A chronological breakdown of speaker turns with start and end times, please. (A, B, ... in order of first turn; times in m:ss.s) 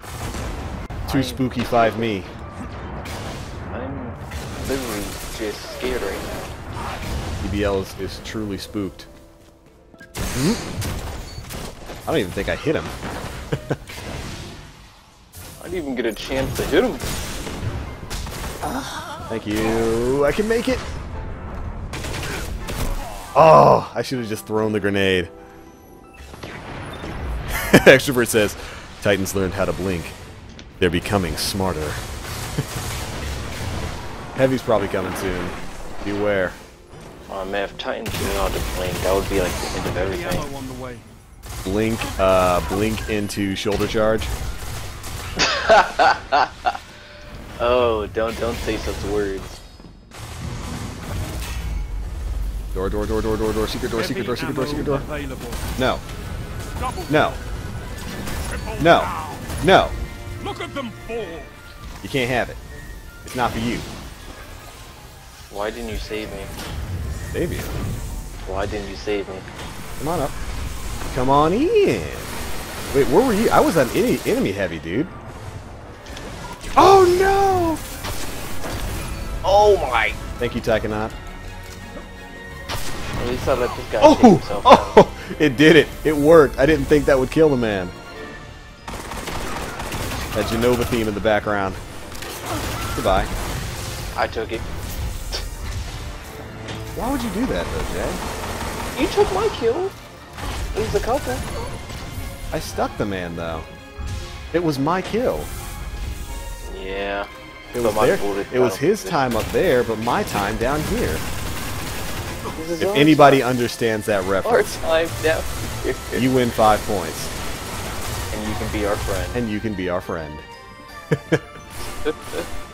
0:01.0-0:02.2 A
0:01.1-0:02.3 B
0:03.7-0:06.4 A
0:07.4-0:09.1 B
0:10.3-0:10.6 B
0:12.1-0:13.0 B
0:15.6-0:17.1 A
0:18.6-0:20.8 B
0:23.4-0:25.3 B
0:27.5-0:30.2 B
0:30.8-0:32.0 B
0:34.4-0:36.6 B
0:37.3-0:40.5 A
0:39.8-0:41.1 C
0:41.6-0:44.3 B
0:45.4-0:46.7 A
0:47.6-0:49.6 A
0:52.7-0:55.1 B
0:53.9-0:55.6 C
0:55.8-0:56.0 B
0:56.8-0:57.4 C
0:57.1-0:57.4 B
0:58.5-0:59.5 C
0:58.8-1:00.0 B
1:00.4-1:01.6 C
1:02.0-1:02.6 B
1:03.2-1:03.9 B
1:05.5-1:06.5 A
1:07.3-1:07.8 B
1:08.4-1:09.5 A
1:10.0-1:10.3 B
1:11.1-1:12.3 B
1:12.9-1:15.1 B
1:16.8-1:17.8 B
1:19.4-1:20.2 A
1:20.4-1:21.2 B
1:23.2-1:25.0 A
1:24.0-1:27.9 B
1:30.3-1:31.8 B
1:32.9-1:33.3 B
1:34.2-1:34.6 A
1:37.0-1:38.2 B
1:39.0-1:40.0 A
1:40.7-1:41.4 A
1:42.5-1:43.7 B
1:44.5-1:45.5 B
1:46.6-1:47.3 A
1:47.7-1:51.2 B
1:47.8-1:49.4 A
1:52.6-1:53.5 A
1:52.8-1:54.8 B
1:54.4-1:56.2 A
1:56.2-1:57.3 B
1:58.3-1:59.4 A
1:59.3-2:00.5 B
2:01.1-2:01.4 B
2:01.8-2:02.5 A